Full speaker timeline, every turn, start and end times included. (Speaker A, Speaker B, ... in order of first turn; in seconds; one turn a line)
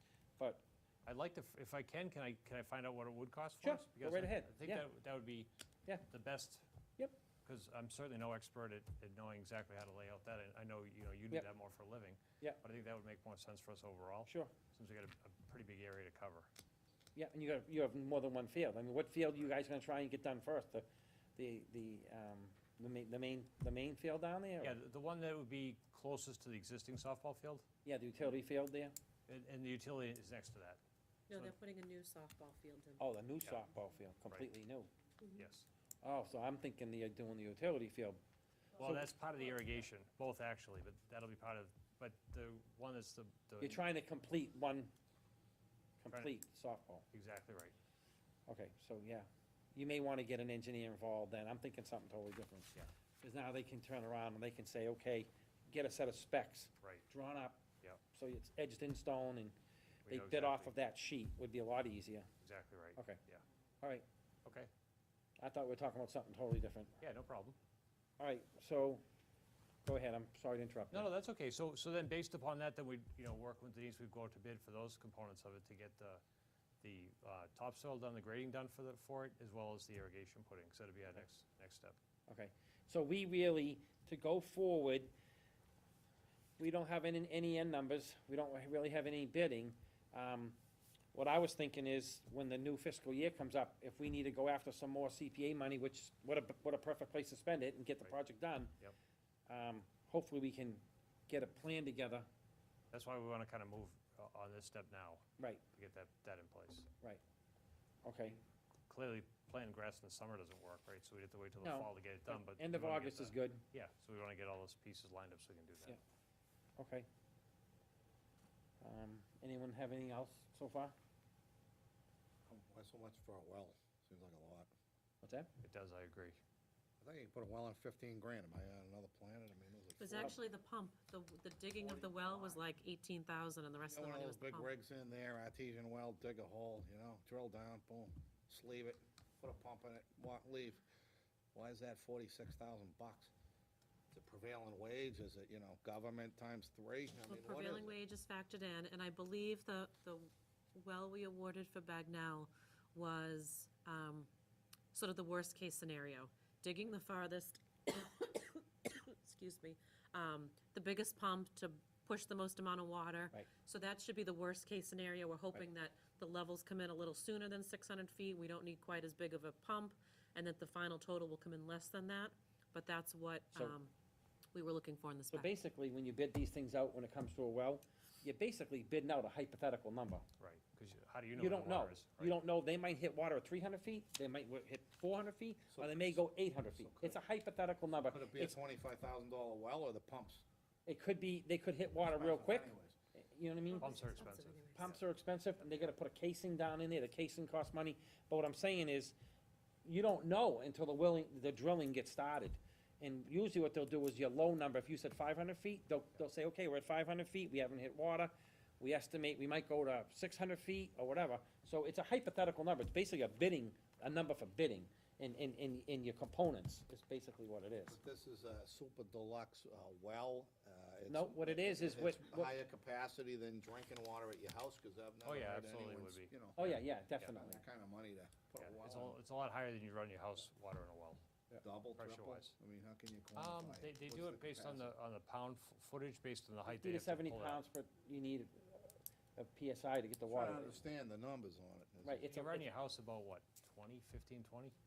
Speaker A: 0.4-0.6
Speaker B: 1.1-5.5
Speaker A: 3.6-4.9
Speaker B: 6.0-6.6
Speaker B: 7.4-16.5
Speaker A: 14.3-14.5
Speaker A: 17.1-24.7
Speaker B: 24.6-27.6
Speaker A: 27.8-28.9
Speaker B: 29.3-30.8
Speaker C: 31.3-33.0
Speaker A: 33.0-34.9
Speaker B: 35.3-35.7
Speaker A: 36.0-38.2
Speaker B: 38.8-43.8
Speaker A: 43.6-44.9
Speaker A: 46.0-47.0
Speaker B: 47.1-47.7
Speaker A: 48.5-59.5
Speaker B: 60.0-60.7
Speaker A: 60.1-62.3
Speaker B: 62.4-63.4
Speaker A: 63.0-63.2
Speaker B: 64.4-64.7
Speaker A: 65.4-67.0
Speaker B: 67.0-67.6
Speaker A: 68.2-69.0
Speaker A: 69.8-71.1
Speaker B: 70.9-76.2
Speaker B: 76.8-82.0
Speaker A: 82.3-85.1
Speaker A: 86.6-90.6
Speaker A: 91.1-98.7
Speaker A: 99.5-102.3
Speaker B: 102.9-106.9
Speaker A: 108.0-108.4
Speaker B: 108.9-116.0
Speaker A: 111.6-113.6
Speaker A: 116.8-117.1
Speaker A: 118.8-120.9
Speaker D: 122.5-124.7
Speaker A: 125.2-125.5
Speaker B: 125.6-126.4
Speaker D: 127.0-130.3
Speaker C: 130.0-134.7
Speaker D: 131.8-132.6
Speaker D: 133.9-140.8
Speaker D: 141.5-143.3
Speaker D: 144.1-148.0
Speaker C: 147.3-154.3
Speaker C: 154.9-173.9
Speaker C: 174.5-175.5
Speaker A: 175.3-180.2
Speaker B: 180.4-182.4
Speaker A: 181.3-188.6
Speaker D: 185.7-187.2
Speaker D: 188.1-190.4
Speaker A: 190.8-194.2
Speaker D: 192.0-192.9
Speaker C: 193.8-194.9
Speaker B: 193.8-195.0
Speaker A: 194.7-199.2
Speaker A: 199.8-218.0
Speaker D: 217.9-229.2
Speaker A: 221.1-222.5
Speaker B: 225.2-227.3
Speaker A: 226.6-227.6
Speaker B: 228.6-231.2
Speaker D: 231.6-234.9
Speaker B: 231.9-232.5
Speaker B: 233.3-237.6
Speaker A: 236.7-240.8
Speaker D: 240.3-242.2
Speaker A: 242.0-242.7
Speaker B: 242.3-244.7